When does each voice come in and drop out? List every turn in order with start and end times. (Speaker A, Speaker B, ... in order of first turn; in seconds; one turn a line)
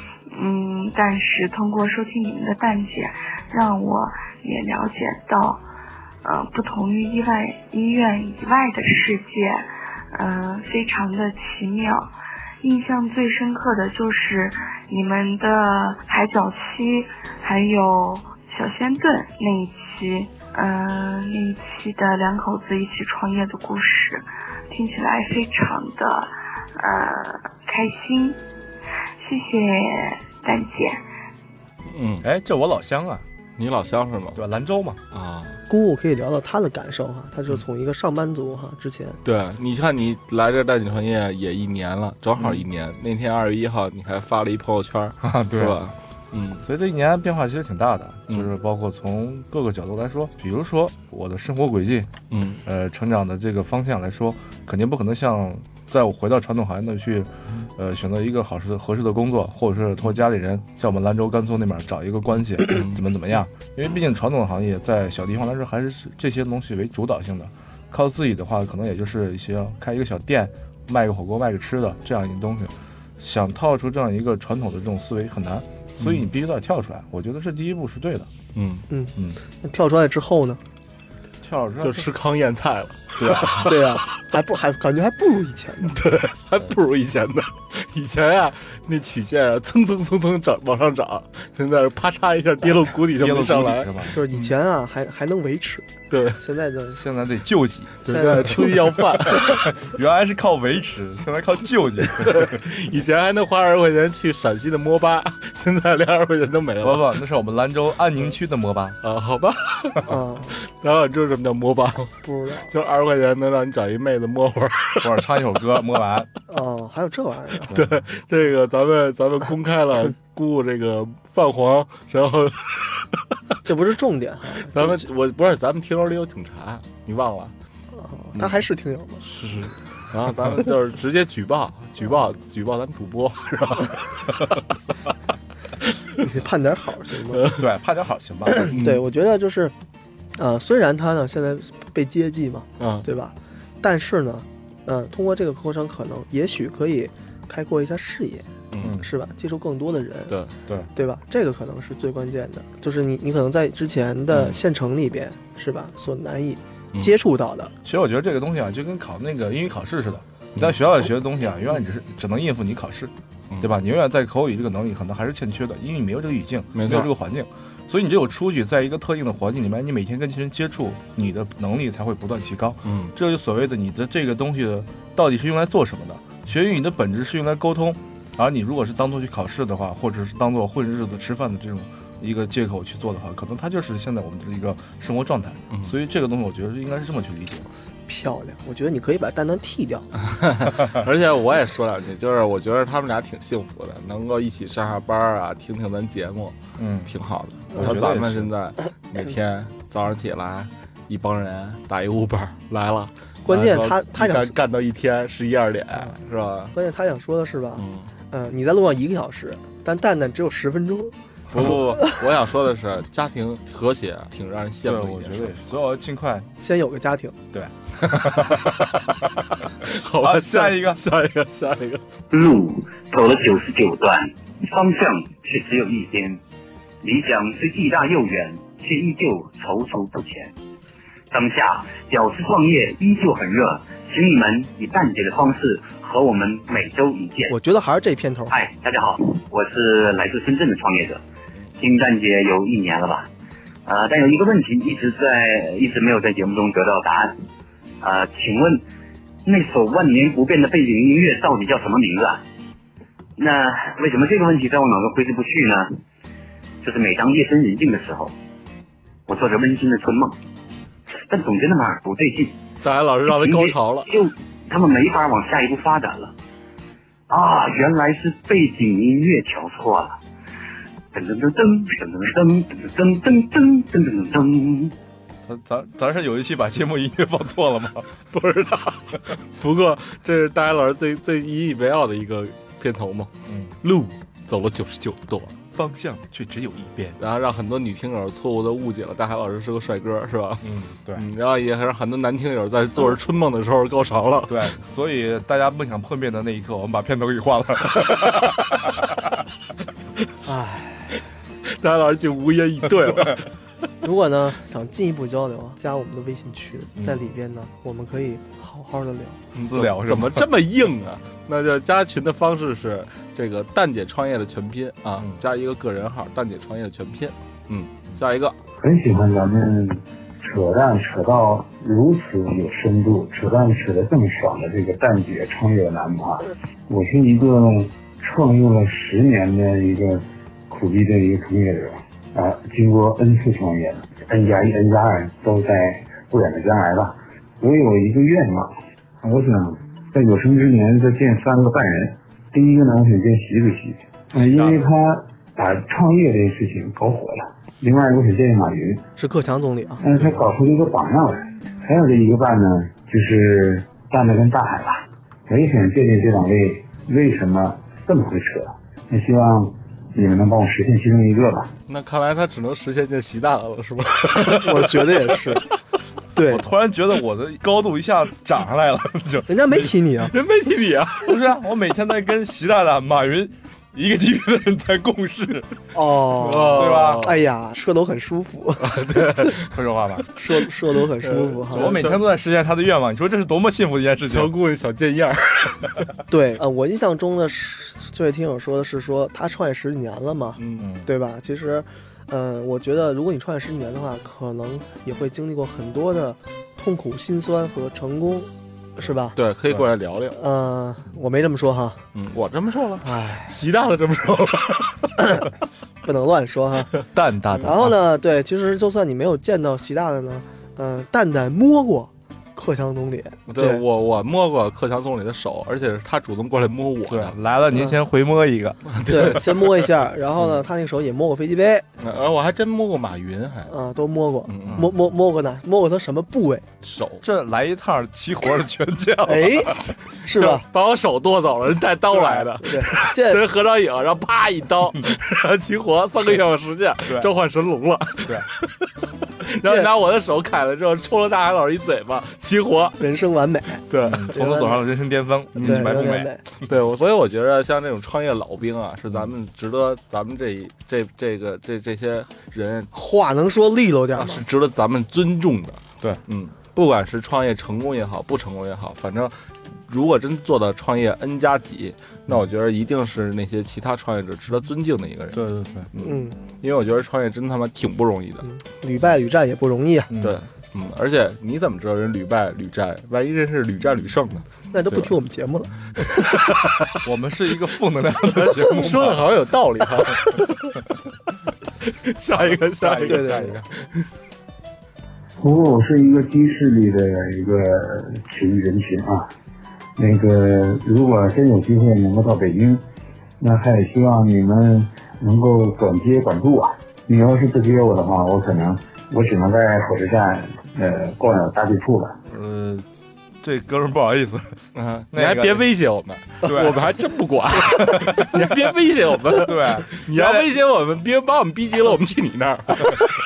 Speaker A: 0.3-5.6
Speaker A: 6.2-12.1
Speaker A: 12.6-28.4
Speaker A: 29.2-31.0
Speaker B: 31.9-32.2
Speaker C: 32.2-33.2
Speaker B: 33.6-34.4
Speaker C: 34.4-35.0
Speaker B: 35.1-35.6
Speaker D: 35.7-39.2
Speaker B: 39.2-46.6
Speaker C: 42.4-42.6
Speaker C: 45.2-45.8
Speaker C: 46.6-78.3
Speaker B: 52.3-52.6
Speaker B: 62.7-63.0
Speaker B: 78.5-78.8
Speaker D: 78.9-80.6
Speaker C: 81.4-82.1
Speaker B: 81.8-84.0
Speaker C: 83.2-83.7
Speaker D: 83.7-86.0
Speaker B: 85.8-94.5
Speaker C: 93.2-94.2
Speaker D: 94.1-95.9
Speaker B: 96.1-96.4
Speaker D: 96.4-97.0
Speaker C: 96.9-98.2
Speaker B: 98.0-99.7
Speaker D: 98.1-98.7
Speaker C: 99.3-102.5
Speaker B: 102.2-107.2
Speaker C: 106.8-109.0
Speaker B: 109.0-110.0
Speaker D: 110.1-110.5
Speaker B: 110.7-112.2
Speaker D: 112.2-112.7
Speaker B: 112.7-115.0
Speaker C: 115.0-116.3
Speaker D: 116.5-117.7
Speaker B: 117.7-122.9
Speaker D: 123.6-125.0
Speaker B: 124.7-127.5
Speaker D: 127.9-129.2
Speaker B: 129.2-134.3
Speaker D: 136.2-137.4
Speaker B: 137.4-137.6
Speaker C: 137.5-138.7
Speaker D: 138.7-139.7
Speaker B: 138.7-139.0
Speaker D: 140.4-148.5
Speaker B: 142.8-143.1
Speaker B: 148.7-149.0
Speaker C: 148.8-149.1
Speaker D: 149.0-150.3
Speaker D: 151.0-157.7
Speaker B: 154.3-154.6
Speaker C: 157.8-187.7
Speaker B: 163.5-163.8
Speaker B: 166.7-167.1
Speaker B: 172.8-173.1
Speaker B: 185.7-186.0
Speaker D: 188.1-190.1
Speaker B: 190.2-206.7
Speaker C: 196.8-197.1
Speaker C: 197.7-198.5
Speaker D: 203.4-204.5
Speaker D: 206.7-211.8
Speaker B: 207.8-208.1
Speaker C: 211.5-211.8
Speaker B: 211.5-215.6
Speaker C: 214.8-216.5
Speaker D: 216.6-217.4
Speaker C: 217.5-218.6
Speaker B: 218.1-219.2
Speaker B: 219.8-222.0
Speaker C: 220.2-221.0
Speaker E: 222.3-226.4
Speaker E: 227.0-230.5
Speaker E: 231.3-237.5
Speaker D: 237.5-238.5
Speaker E: 238.5-241.2
Speaker E: 241.8-243.3
Speaker E: 243.9-247.3
Speaker E: 248.0-248.8
Speaker E: 249.5-252.4
Speaker E: 253.4-255.9
Speaker E: 256.8-258.3
Speaker E: 259.3-260.4
Speaker E: 261.3-262.6
Speaker B: 262.8-264.1
Speaker E: 263.3-266.3
Speaker E: 267.3-270.2
Speaker E: 271.1-274.9
Speaker C: 275.4-278.1
Speaker B: 278.3-283.3
Speaker C: 283.5-283.8
Speaker B: 283.8-285.6
Speaker C: 285.7-287.2
Speaker B: 287.2-294.7
Speaker C: 290.6-291.3
Speaker C: 294.5-298.1
Speaker B: 297.9-299.0
Speaker D: 300.5-301.1
Speaker B: 301.7-303.5
Speaker D: 304.0-309.4
Speaker B: 309.5-318.6
Speaker C: 309.6-310.4
Speaker F: 318.8-338.7
Speaker F: 339.2-349.0
Speaker C: 344.4-344.8
Speaker D: 349.2-350.0
Speaker F: 350.0-361.7
Speaker B: 361.9-364.9
Speaker D: 364.6-365.6
Speaker D: 366.3-366.6
Speaker C: 366.5-369.5
Speaker D: 369.5-370.3
Speaker B: 370.3-371.4
Speaker C: 371.2-375.7
Speaker D: 375.9-378.9
Speaker B: 376.4-377.3
Speaker C: 376.7-377.3
Speaker B: 378.8-379.7
Speaker C: 379.7-380.2
Speaker D: 380.4-382.0
Speaker B: 381.2-382.2
Speaker C: 381.7-384.5
Speaker B: 384.3-386.0
Speaker D: 386.3-399.4
Speaker B: 390.6-390.9
Speaker C: 390.8-391.1
Speaker B: 399.4-400.4
Speaker D: 400.4-402.0
Speaker B: 402.1-405.1
Speaker D: 403.0-403.6
Speaker D: 406.0-406.9
Speaker C: 407.1-407.9
Speaker D: 407.6-413.8
Speaker B: 413.5-417.4
Speaker C: 417.1-419.3
Speaker B: 418.9-419.7
Speaker D: 419.1-421.9
Speaker B: 422.0-423.7
Speaker D: 423.7-426.6
Speaker B: 424.5-424.9
Speaker C: 424.6-424.9
Speaker B: 426.8-427.2
Speaker C: 427.2-429.7
Speaker D: 429.3-429.7
Speaker D: 430.3-430.6
Speaker B: 430.3-438.4
Speaker D: 432.1-433.4
Speaker B: 439.5-443.0
Speaker D: 443.0-444.7
Speaker B: 443.9-444.3
Speaker C: 444.0-446.3
Speaker B: 445.6-446.1
Speaker D: 445.6-446.4
Speaker B: 446.7-452.9
Speaker D: 452.9-454.4
Speaker B: 454.2-459.4
Speaker B: 459.9-465.4
Speaker C: 465.3-465.9
Speaker B: 465.9-468.5
Speaker D: 466.0-466.4
Speaker D: 468.4-470.1
Speaker C: 470.1-470.4
Speaker B: 470.2-474.5
Speaker D: 474.7-475.7
Speaker C: 477.0-479.3
Speaker B: 478.5-480.2
Speaker B: 482.1-483.8
Speaker C: 482.4-483.6
Speaker D: 483.1-483.5
Speaker F: 485.4-489.3
Speaker F: 490.0-492.8
Speaker F: 493.4-502.2
Speaker C: 502.3-502.9
Speaker C: 503.4-504.6
Speaker B: 504.8-513.0
Speaker C: 505.1-505.6
Speaker C: 506.4-506.9
Speaker C: 507.7-508.7
Speaker C: 509.4-510.5